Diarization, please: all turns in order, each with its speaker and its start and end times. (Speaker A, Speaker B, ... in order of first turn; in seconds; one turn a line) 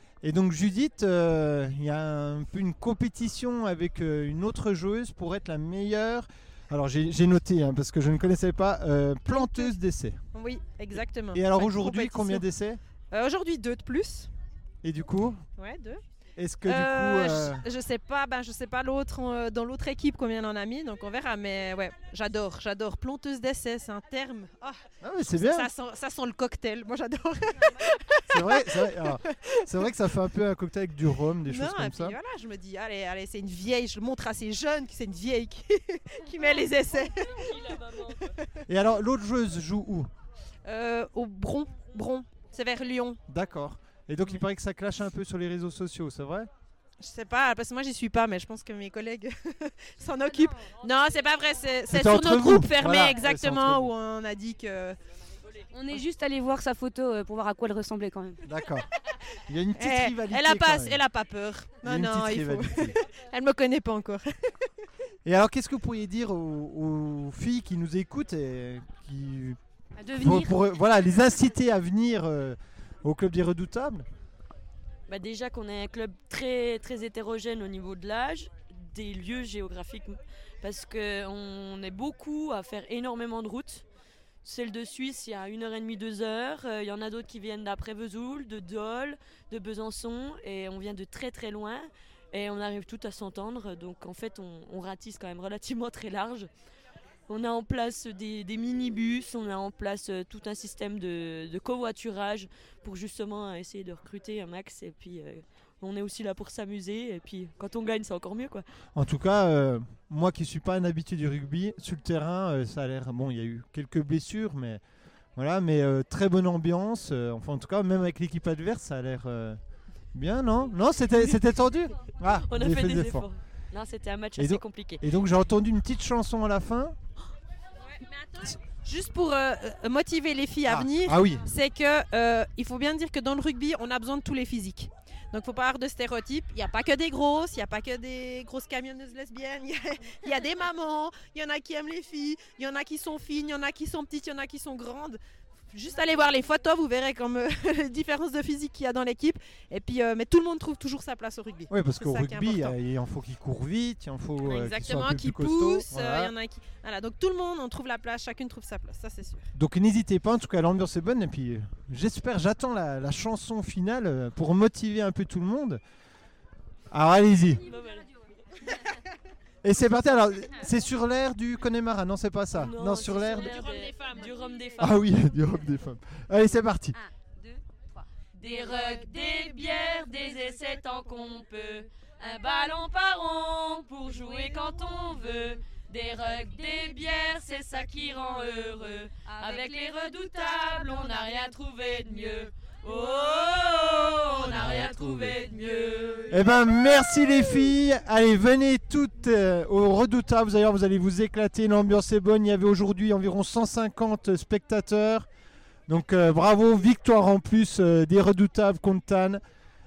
Speaker A: 0.2-10.2
Speaker B: 10.3-12.4
Speaker A: 11.0-12.8
Speaker B: 13.1-14.3
Speaker A: 14.8-15.4
Speaker B: 15.6-16.0
Speaker A: 16.4-17.6
Speaker B: 16.7-29.7
Speaker A: 25.0-25.7
Speaker A: 28.3-32.2
Speaker B: 31.4-38.4
Speaker C: 37.4-38.3
Speaker A: 38.7-40.1
Speaker B: 40.6-43.2
Speaker A: 43.3-46.5
Speaker B: 47.0-55.0
Speaker A: 51.9-53.9
Speaker D: 55.7-58.4
Speaker A: 58.4-58.9
Speaker A: 59.5-61.0
Speaker B: 59.8-64.7
Speaker A: 61.8-63.0
Speaker A: 65.2-69.6
Speaker D: 70.0-70.6
Speaker A: 70.1-74.1
Speaker C: 75.1-83.8
Speaker C: 84.4-96.5
Speaker C: 97.3-108.6
Speaker A: 109.0-114.8
Speaker A: 115.4-119.6
Speaker A: 120.1-123.3
Speaker C: 122.5-125.0
Speaker A: 124.4-127.0
Speaker B: 127.9-145.2
Speaker A: 130.7-131.5
Speaker B: 145.7-152.7
Speaker A: 151.7-156.3
Speaker B: 154.4-159.5
Speaker A: 159.6-165.8
Speaker A: 166.9-167.6
Speaker C: 167.6-168.8
Speaker A: 169.6-173.6
Speaker C: 172.5-175.1
Speaker A: 174.8-177.0
Speaker C: 177.0-177.6
Speaker E: 178.3-196.3
Speaker C: 183.3-183.8
Speaker C: 189.4-189.7
Speaker A: 194.6-195.3
Speaker A: 196.3-205.3
Speaker A: 205.9-209.4